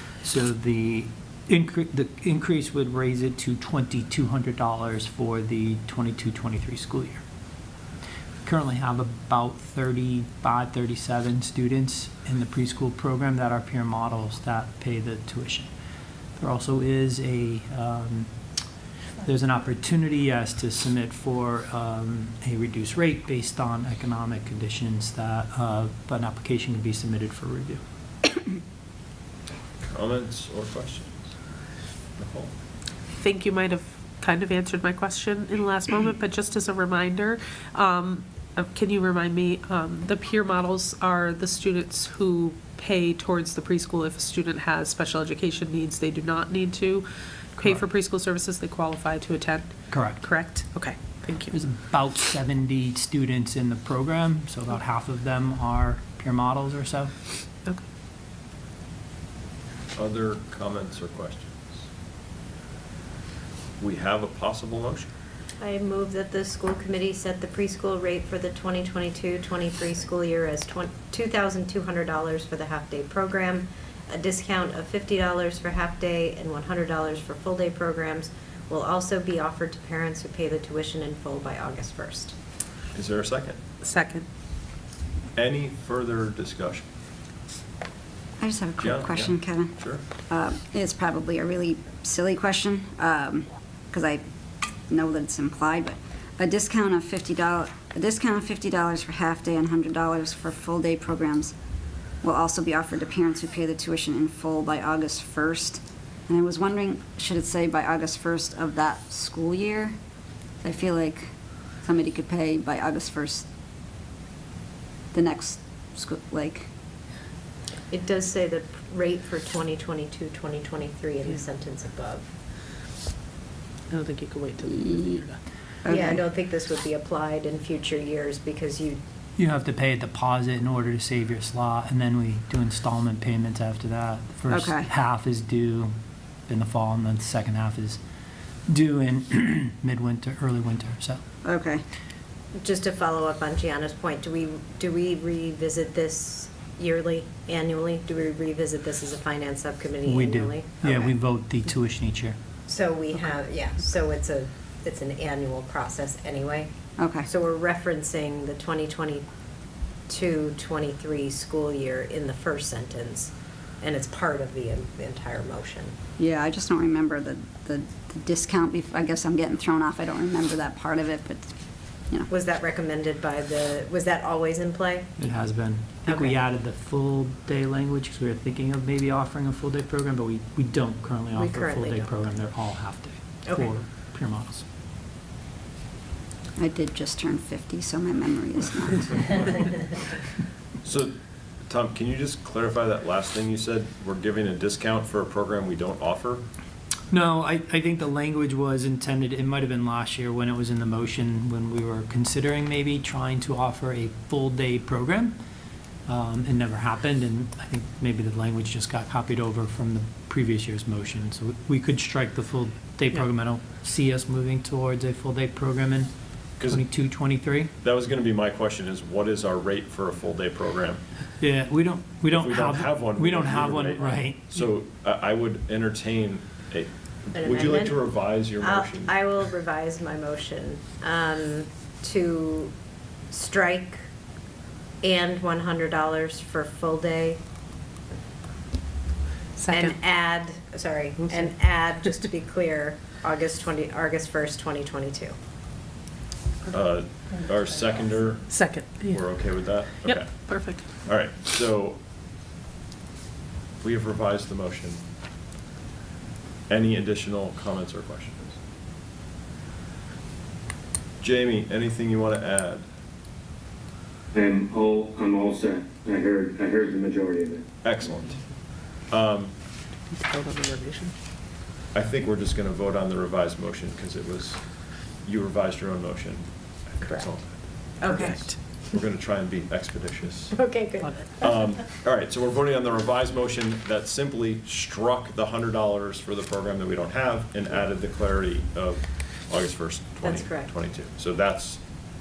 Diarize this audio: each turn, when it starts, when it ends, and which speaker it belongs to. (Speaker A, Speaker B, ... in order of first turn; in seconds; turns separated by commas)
Speaker A: 0.2-7.2, Speaker A: 8.4-15.7, Speaker A: 16.4-18.3, Speaker A: 19.2-27.8, Speaker B: 29.9-31.3, Speaker B: 32.2-32.5, Speaker C: 33.1-51.5, Speaker A: 49.9-50.2, Speaker A: 51.5-57.1, Speaker B: 60.0-61.8, Speaker B: 63.8-65.1, Speaker D: 65.6-82.3, Speaker B: 82.9-83.6, Speaker C: 83.8-84.2, Speaker B: 85.3-86.8, Speaker E: 88.4-94.2, Speaker B: 88.8-90.0, Speaker E: 94.9-101.5, Speaker E: 102.2-109.9, Speaker E: 110.6-111.3, Speaker E: 111.8-113.5, Speaker E: 115.1-116.7, Speaker D: 117.9-122.3, Speaker C: 123.9-125.4, Speaker E: 125.8-126.2, Speaker D: 125.9-129.0, Speaker A: 129.4-135.9, Speaker E: 134.5-134.9, Speaker A: 136.5-138.0, Speaker A: 138.7-141.2, Speaker E: 141.4-141.8, Speaker D: 142.6-151.1, Speaker A: 150.0-152.3, Speaker D: 152.7-156.7, Speaker E: 157.0-157.3, Speaker D: 157.2-159.2, Speaker D: 160.1-165.9, Speaker E: 166.2-171.5, Speaker D: 172.3-175.1, Speaker A: 175.2-184.6, Speaker D: 176.1-176.4, Speaker D: 181.3-182.1, Speaker D: 183.4-183.7, Speaker E: 186.6-189.7, Speaker B: 190.8-191.1, Speaker B: 191.7-196.4, Speaker A: 197.1-205.3, Speaker A: 206.1-216.1, Speaker B: 216.6-216.8, Speaker A: 216.7-217.7, Speaker B: 217.8-221.0, Speaker A: 221.4-224.6, Speaker B: 222.3-229.2, Speaker D: 227.3-232.7, Speaker D: 233.3-234.0, Speaker D: 235.0-237.4, Speaker C: 239.6-240.0, Speaker D: 239.7-245.3, Speaker B: 246.7-248.5, Speaker C: 248.4-250.8, Speaker B: 249.1-250.5, Speaker B: 251.0-252.0, Speaker B: 253.8-255.0, Speaker B: 256.7-258.6, Speaker B: 261.2-262.9, Speaker F: 264.3-267.7, Speaker B: 267.8-268.4, Speaker B: 269.1-269.5, Speaker C: 270.2-271.1, Speaker B: 271.9-274.7, Speaker B: 275.2-280.6, Speaker D: 278.0-278.4, Speaker C: 278.1-278.6, Speaker D: 280.5-281.6, Speaker B: 281.4-291.8, Speaker D: 290.2-290.7